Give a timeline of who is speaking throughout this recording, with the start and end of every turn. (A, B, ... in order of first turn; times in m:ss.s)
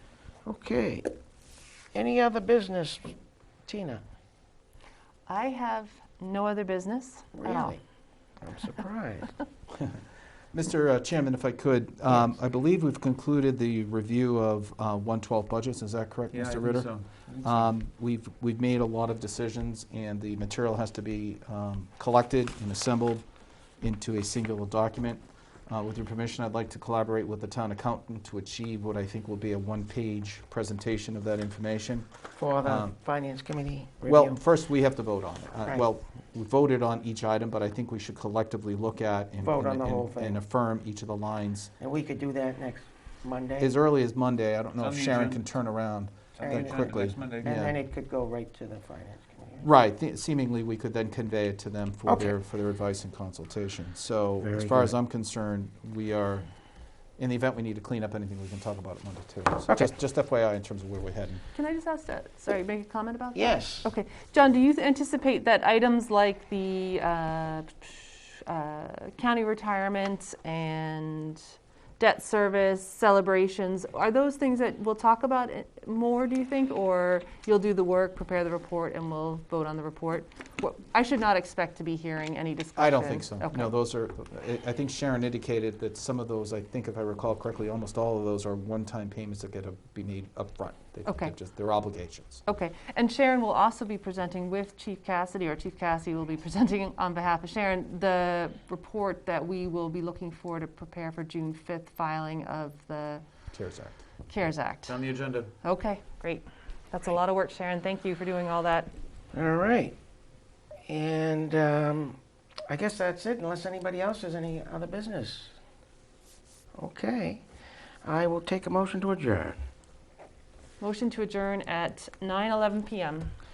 0:00.4-0:01.1 A
0:01.9-0:03.1 A
0:03.7-0:04.0 A
0:05.3-0:07.8 B
0:07.3-0:07.8 A
0:08.4-0:09.4 A
0:10.5-0:23.2 C
0:16.3-0:17.1 D
0:17.3-0:17.7 A
0:23.8-0:32.1 C
0:32.4-0:34.4 A
0:32.6-0:33.0 C
0:34.0-0:41.7 C
0:39.4-0:40.4 A
0:41.8-0:43.8 A
0:43.6-0:47.8 C
0:44.8-0:45.5 D
0:46.4-0:47.5 D
0:46.4-0:49.7 A
0:49.6-0:56.5 C
0:52.1-0:52.4 A
0:54.4-0:55.0 A
0:57.2-1:01.4 C
0:59.7-0:59.9 A
1:01.5-1:23.7 B
1:03.4-1:03.9 A
1:22.8-1:32.4 C
1:31.1-1:31.4 B
1:32.5-1:43.2 B
1:43.5-1:44.0 C
1:44.3-1:45.1 B
1:44.9-1:45.5 D
1:45.6-1:48.9 B
1:49.3-1:50.0 A
1:50.9-1:55.6 A
1:56.8-1:57.4 A
1:58.0-1:59.6 A
2:00.8-2:03.3 B